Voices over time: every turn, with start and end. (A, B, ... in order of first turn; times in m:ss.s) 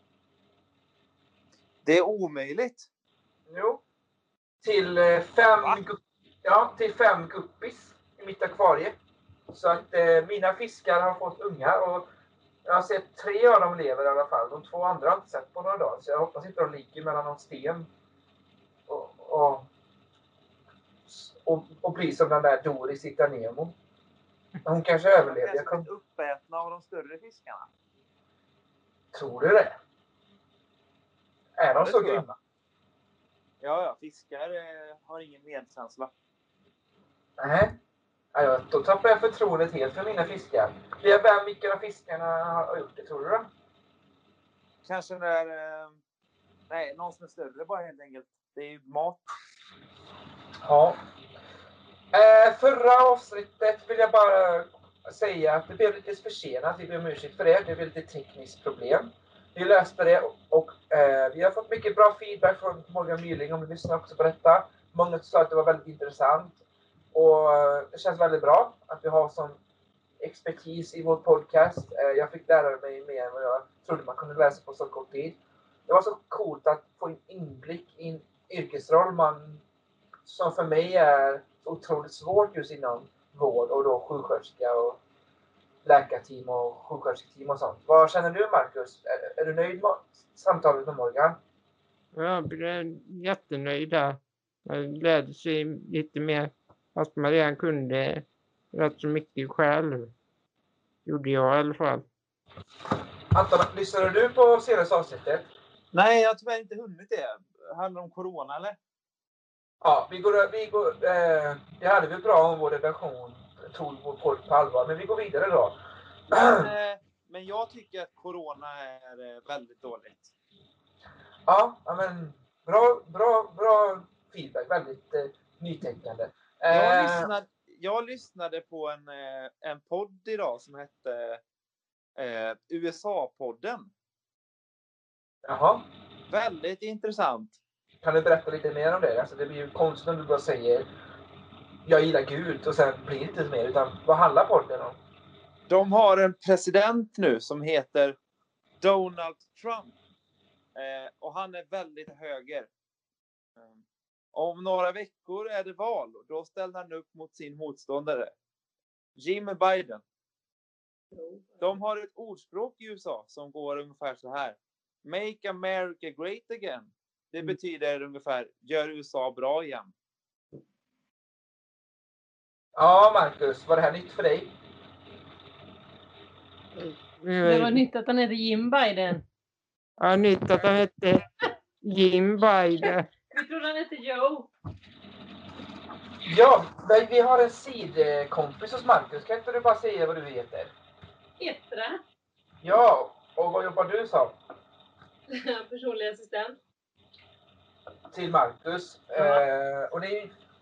0:01.8-0:02.9 A
0:03.5-0:03.8 B
0:04.6-0:08.9 B
0:09.5-0:12.1 B
0:12.6-0:17.9 B
0:18.9-0:19.7 B
0:21.1-0:23.8 B
0:24.6-0:25.9 B
0:25.2-0:27.7 A
0:29.1-0:29.7 B
0:31.6-0:32.4 B
0:31.7-0:32.2 A
0:33.6-0:36.1 A
0:37.4-0:37.7 B
0:38.3-0:43.5 B
0:44.8-0:46.0 A
0:46.7-0:49.2 A
0:50.6-0:51.0 B
0:52.1-1:06.6 B
1:07.1-1:09.6 B
1:10.2-1:19.6 B
1:20.2-1:25.0 B
1:25.8-1:31.4 B
1:32.1-1:40.1 C
1:41.0-1:42.1 C
1:43.3-1:45.5 B
1:45.9-1:48.8 A
1:49.8-1:55.8 B
1:56.3-1:56.7 B
1:56.6-2:00.3 A
2:01.5-2:07.3 B
2:06.7-2:11.4 A
2:12.2-2:13.9 A
2:15.4-2:15.9 B
2:16.3-2:17.6 A
2:18.0-2:20.9 B
2:21.8-2:25.0 B
2:25.7-2:28.2 A
2:28.8-2:30.0 A
2:30.8-2:32.7 A
2:33.6-2:33.8 A
2:34.3-2:38.3 A
2:39.2-2:40.0 A
2:41.1-2:41.6 D
2:41.6-2:49.9 A
2:52.8-2:54.5 B
2:56.8-2:57.8 C
2:57.4-2:59.2 D
3:00.0-3:01.2 C
3:01.8-3:03.1 C
3:03.3-3:04.5 D
3:06.2-3:10.7 B
3:11.4-3:12.0 D
3:12.6-3:14.4 B
3:15.3-3:16.6 D
3:18.1-3:20.3 B
3:19.2-3:19.4 D